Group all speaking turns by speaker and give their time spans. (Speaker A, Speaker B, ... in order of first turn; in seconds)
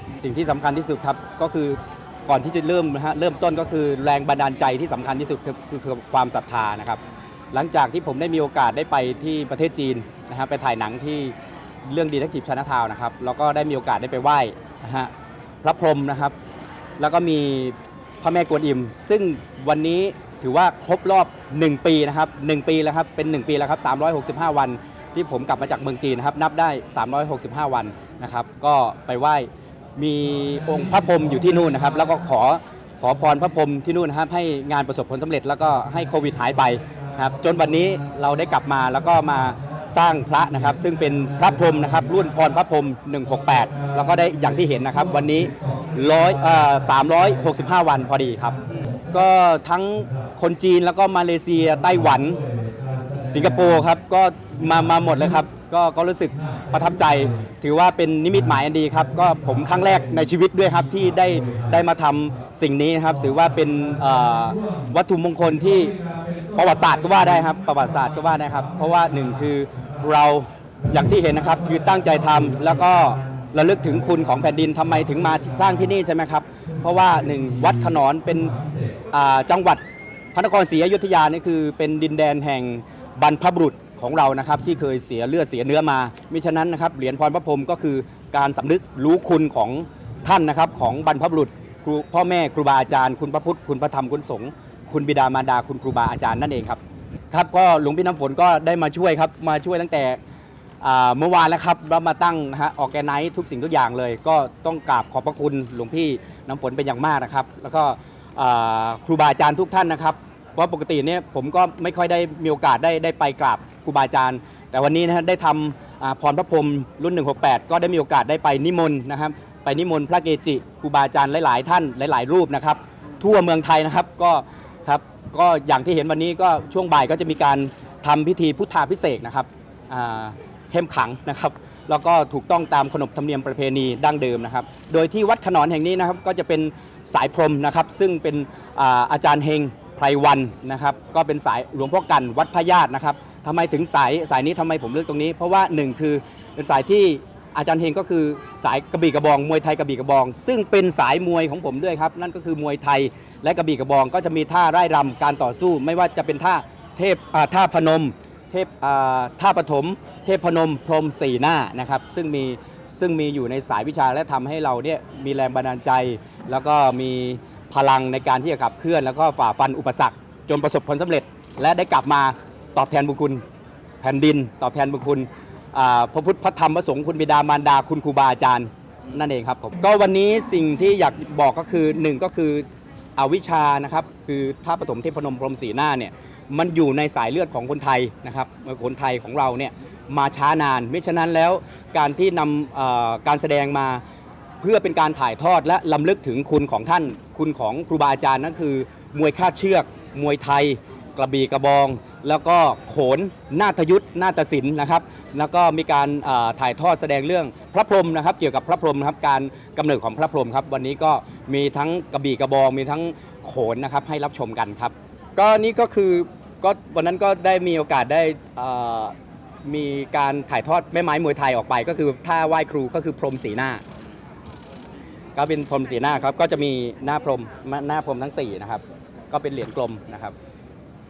Speaker A: 0.2-15.1, 15.6-16.3, 17.0-52.4, 53.2-66.0, 66.5-79.8, 80.3-96.8, 97.3-100.2, 100.8-173.4, 174.0-194.0, 194.6-223.8, 225.3-230.3